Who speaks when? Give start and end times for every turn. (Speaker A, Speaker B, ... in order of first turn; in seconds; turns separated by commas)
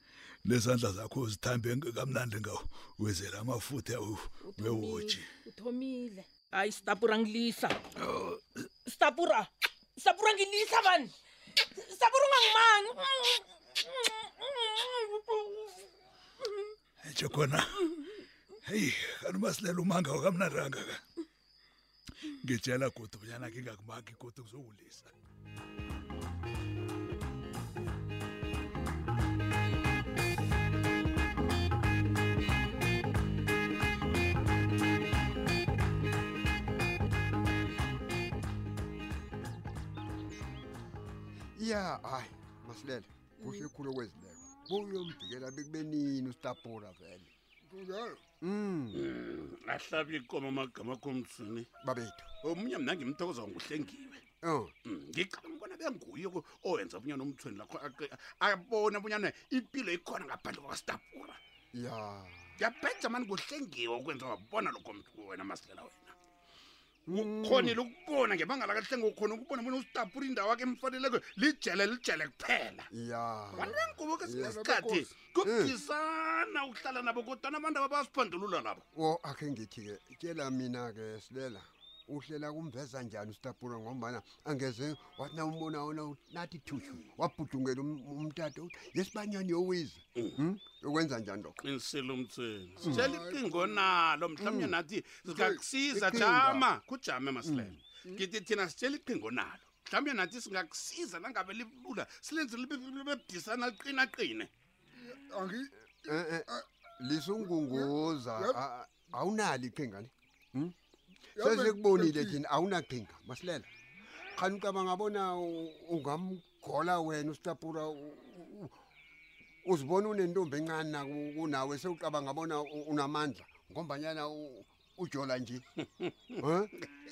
Speaker A: 0.4-5.2, Speaker B: 4.4-7.8, Speaker A: 8.0-8.4, Speaker B: 8.8-15.9, Speaker A: 17.0-17.9, Speaker A: 18.6-21.0, Speaker A: 22.4-25.1, Speaker C: 41.5-47.3, Speaker D: 47.7-48.2, Speaker C: 48.4-49.1, Speaker E: 49.0-51.7, Speaker C: 51.8-52.3, Speaker E: 52.4-54.2, Speaker C: 54.4-54.7, Speaker E: 54.8-61.4, Speaker C: 61.7-62.5, Speaker E: 62.6-66.1, Speaker C: 67.1-67.8, Speaker E: 67.2-72.8, Speaker C: 72.9-74.6, Speaker E: 74.0-78.8, Speaker D: 74.3-75.1, Speaker C: 75.4-75.8, Speaker C: 78.9-91.6, Speaker E: 91.6-96.0, Speaker C: 92.8-93.2, Speaker D: 92.9-93.9, Speaker C: 94.4-94.8, Speaker D: 95.2-96.2, Speaker C: 95.9-96.7, Speaker E: 96.6-97.5, Speaker C: 97.4-97.8, Speaker E: 98.2-104.5, Speaker D: 105.0-106.6, Speaker C: 106.1-106.5, Speaker C: 107.0-110.7, Speaker D: 107.4-108.6, Speaker D: 111.3-112.4, Speaker C: 111.4-113.7, Speaker C: 114.3-118.7, Speaker C: 119.6-125.6, Speaker C: 126.4-126.7